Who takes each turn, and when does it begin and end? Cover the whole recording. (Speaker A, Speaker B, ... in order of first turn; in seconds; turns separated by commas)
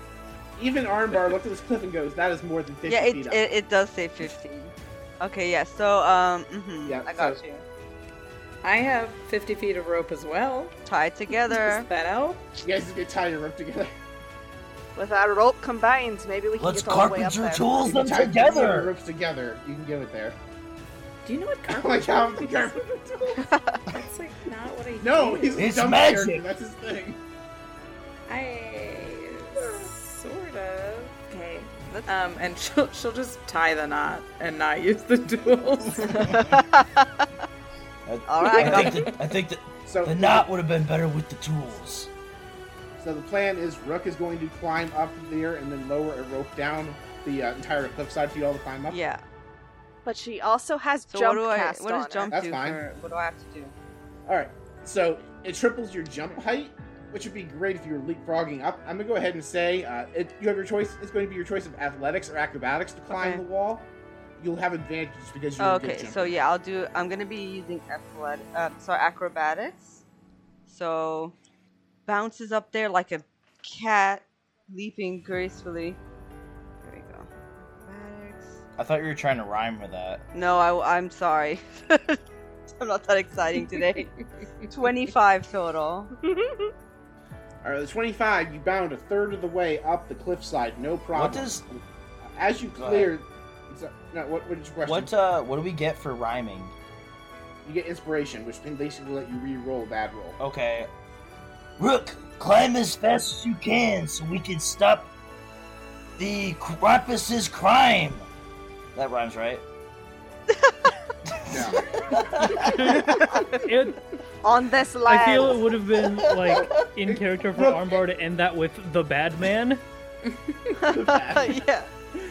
Speaker A: 0.6-3.4, Speaker B: 2.8-7.6, Speaker A: 6.8-7.4, Speaker C: 8.6-10.7, Speaker B: 10.8-11.9, Speaker C: 11.4-12.4, Speaker A: 12.6-13.9, Speaker D: 14.9-17.8, Speaker E: 16.6-18.9, Speaker A: 17.8-20.4, Speaker C: 21.2-22.6, Speaker A: 21.7-23.4, Speaker B: 23.4-23.8, Speaker C: 23.9-25.7, Speaker A: 25.0-27.2, Speaker E: 25.6-26.4, Speaker C: 28.3-36.3, Speaker B: 36.0-37.2, Speaker E: 38.0-42.1, Speaker B: 38.3-39.1, Speaker C: 38.5-39.1, Speaker A: 39.8-40.5, Speaker A: 43.0-49.0, Speaker B: 48.9-49.2, Speaker D: 50.0-52.3, Speaker B: 51.1-53.7, Speaker A: 52.3-52.8, Speaker A: 54.2-66.4, Speaker B: 63.1-63.4, Speaker B: 65.6-70.0, Speaker B: 70.7-71.3, Speaker B: 72.0-76.0, Speaker B: 76.8-77.3, Speaker B: 77.8-78.6, Speaker E: 78.8-80.2, Speaker B: 80.3-82.2, Speaker B: 82.7-86.1, Speaker D: 86.2-86.7, Speaker A: 87.6-91.7, Speaker E: 91.1-91.6, Speaker A: 92.2-95.1, Speaker E: 92.8-93.1, Speaker E: 94.8-96.7, Speaker A: 97.6-100.4, Speaker E: 100.4-100.9, Speaker E: 101.8-105.1, Speaker E: 106.2-108.2, Speaker E: 108.9-109.6, Speaker B: 110.5-110.9, Speaker E: 111.2-112.6, Speaker A: 111.5-113.1, Speaker F: 112.6-113.1, Speaker B: 113.1-113.4, Speaker F: 113.7-114.0, Speaker D: 114.4-115.6, Speaker F: 115.0-119.8, Speaker E: 116.2-116.6, Speaker A: 116.5-118.0, Speaker A: 120.8-121.6, Speaker B: 120.9-121.9